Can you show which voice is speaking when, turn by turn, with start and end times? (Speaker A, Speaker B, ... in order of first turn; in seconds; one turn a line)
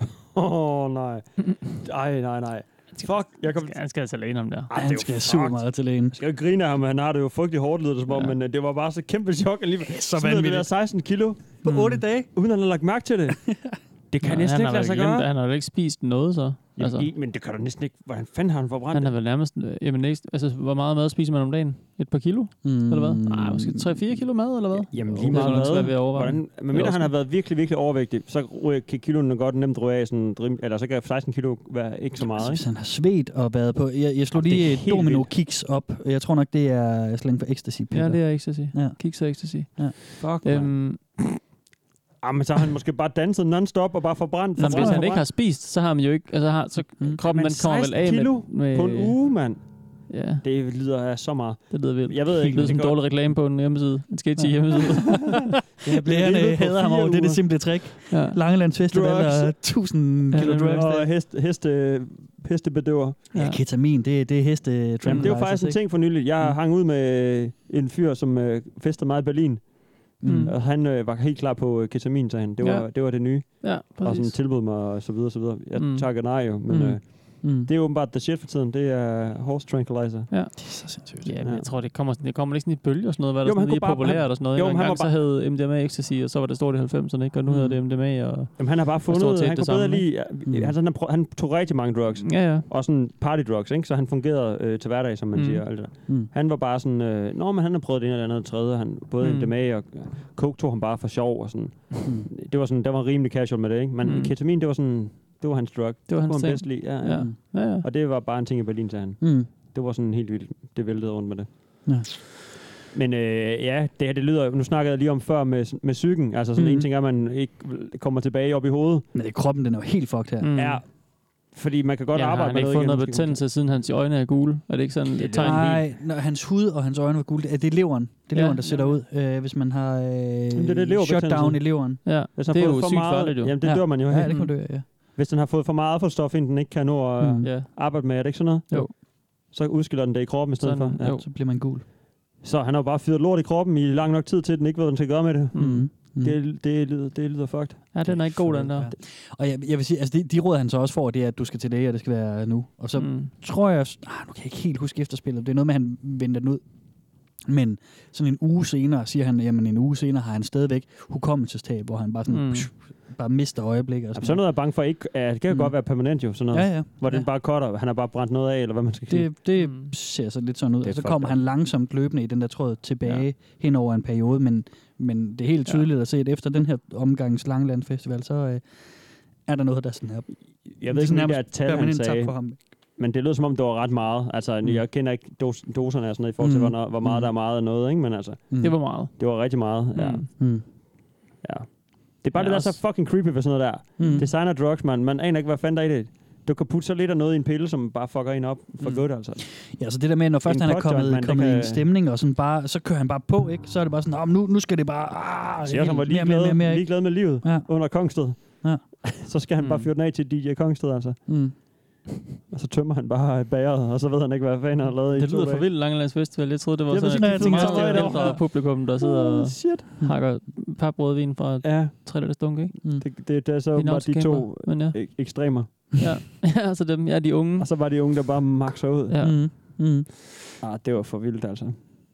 Speaker A: 0.3-3.8
Speaker B: 3.5-4.7
Speaker A: 4.7-11.6
Speaker C: 4.7-6.2
Speaker B: 8.1-8.3
Speaker C: 9.8-10.7
Speaker C: 11.6-12.3
Speaker B: 11.6-12.1
Speaker A: 12.3-13.5
Speaker C: 13.5-13.8
Speaker A: 14.1-15.3
Speaker B: 14.2-17.1
Speaker A: 16.8-19.1
Speaker B: 18.9-27.1
Speaker C: 22.6-26.0
Speaker A: 24.9-32.6
Speaker C: 32.2-39.9
Speaker A: 34.3-35.3
Speaker B: 37.9-41.2
Speaker A: 40.2-40.9
Speaker A: 42.2-45.3
Speaker B: 44.6-49.2
Speaker C: 44.6-45.2
Speaker A: 47.2-53.0
Speaker B: 50.1-50.4
Speaker B: 51.7-55.4
Speaker C: 54.4-61.1
Speaker A: 55.8-57.6
Speaker B: 58.1-58.4
Speaker A: 58.9-59.8
Speaker B: 60.3-60.9
Speaker A: 60.4-63.3
Speaker B: 63.3-63.6
Speaker C: 63.3-66.5
Speaker B: 65.0-65.4
Speaker A: 65.1-80.3
Speaker C: 70.2-70.5
Speaker B: 70.2-70.5
Speaker B: 72.6-74.3
Speaker B: 75.8-77.0
Speaker C: 76.7-77.7
Speaker B: 80.3-90.1
Speaker C: 80.6-81.3
Speaker A: 83.4-85.1
Speaker C: 87.5-87.8
Speaker A: 88.6-111.5
Speaker C: 90.4-90.7
Speaker B: 92.2-92.7
Speaker B: 95.3-95.6
Speaker B: 99.2-99.5
Speaker C: 102.0-102.3
Speaker B: 104.0-104.3
Speaker B: 106.1-107.8
Speaker C: 107.1-107.4
Speaker C: 109.2-109.5
Speaker C: 111.8-112.2
Speaker A: 112.9-119.1
Speaker C: 116.6-116.9
Speaker C: 119.1-120.6
Speaker B: 120.4-120.8
Speaker A: 120.6-123.4
Speaker B: 122.1-125.8
Speaker A: 125.2-125.8
Speaker C: 125.3-132.1
Speaker B: 128.3-129.0
Speaker A: 130.5-141.2
Speaker B: 132.0-134.5
Speaker C: 133.6-134.8
Speaker C: 137.2-137.7
Speaker B: 137.4-137.7
Speaker B: 140.6-141.2
Speaker C: 141.0-141.8
Speaker A: 142.4-148.9
Speaker B: 145.5-145.9
Speaker C: 145.5-146.4
Speaker B: 147.9-148.9
Speaker C: 148.0-156.6
Speaker B: 152.9-153.3
Speaker C: 157.2-164.7
Speaker B: 162.3-162.7
Speaker A: 164.1-169.3
Speaker C: 165.5-167.3
Speaker C: 169.1-182.6
Speaker B: 169.6-169.9
Speaker A: 170.8-171.4
Speaker A: 180.8-190.8
Speaker C: 186.4-187.3
Speaker C: 188.5-188.9
Speaker B: 188.6-190.3
Speaker C: 190.4-190.7
Speaker A: 191.4-199.4
Speaker B: 192.3-192.8
Speaker C: 194.0-194.3
Speaker C: 199.6-208.8
Speaker A: 200.4-201.9
Speaker A: 205.7-211.7
Speaker B: 209.6-209.9
Speaker C: 211.3-211.6
Speaker A: 212.5-215.7
Speaker B: 215.1-222.7
Speaker A: 216.9-219.8
Speaker C: 217.1-218.7
Speaker A: 221.6-226.0
Speaker B: 223.7-227.7
Speaker A: 227.6-229.4
Speaker B: 229.1-229.3
Speaker C: 229.2-230.2
Speaker A: 230.6-231.8